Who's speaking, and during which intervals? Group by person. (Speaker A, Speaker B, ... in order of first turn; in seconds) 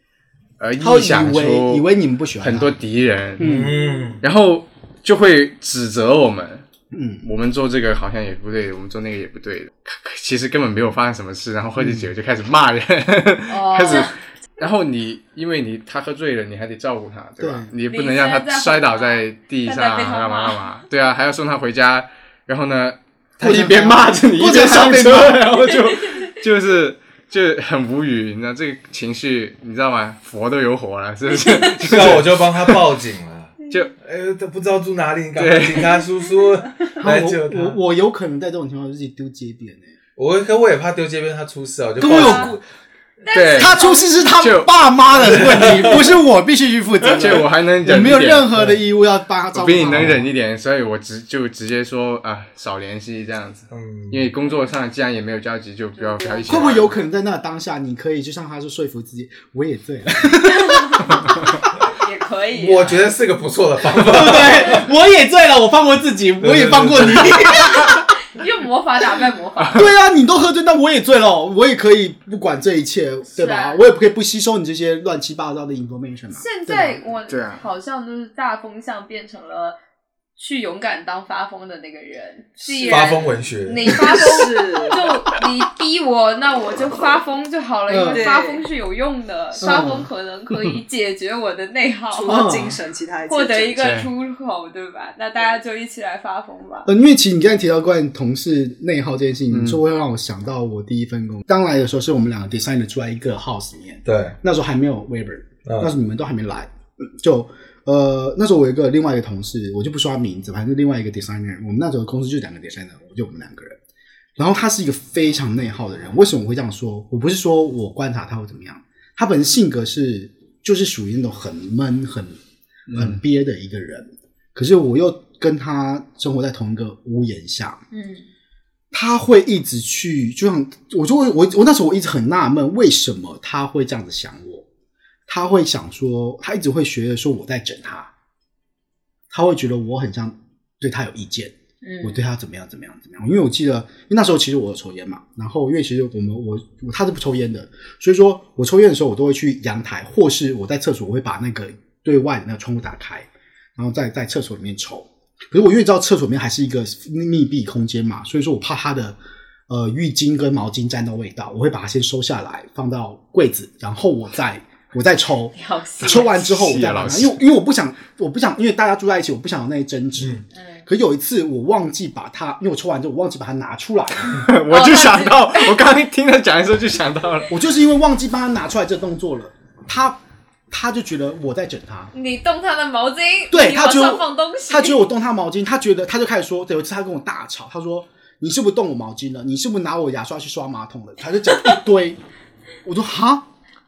Speaker A: 0.6-1.9, 2.4-3.7, 4.2-6.7, 7.2-32.8, 33.7-34.0, 35.4-36.0, 43.3-43.9, 44.4-45.7, 47.1-48.8, 49.5-57.0, 69.6-69.9, 77.3-77.6, 93.8-94.1, 99.5-99.8, 122.9-123.2, 166.4-167.4, 174.3-177.5
Speaker B: 0.8-2.7, 3.4-3.7, 6.9-7.2, 11.8-12.1, 17.4-17.7, 23.4-25.7, 37.0-39.9, 42.0-42.6, 43.5-50.3, 56.5-61.6, 63.9-68.0, 69.8-77.0, 87.9-88.3, 89.6-90.1, 92.3-92.8, 96.9-113.8, 114.4-122.4, 122.9-127.8, 128.9-134.7, 135.3-138.1, 139.3-159.2, 159.7-174.5, 177.5-180.2, 180.7-182.1, 183.5-192.2, 192.8-193.5
Speaker C: 3.4-4.2, 31.8-37.8, 40.2-42.6, 45.5-45.8, 53.7-54.3, 62.5-64.9, 66.4-67.4, 82.8-84.2, 104.1-104.4
Speaker D: 13.5-14.1, 17.9-20.6, 42.1-42.5, 43.2-44.2, 56.0-56.8, 60.5-61.1, 62.0-63.0, 67.8-69.9, 73.3-73.8, 76.3-79.8, 80.4-92.6, 93.3-96.9, 127.9-128.3, 141.8-142.2, 165.6-166.4, 170.6-170.8, 174.7-175.8, 182.1-185.0
Speaker E: 82.8-83.1, 83.9-85.1, 88.1-88.7, 92.1-93.8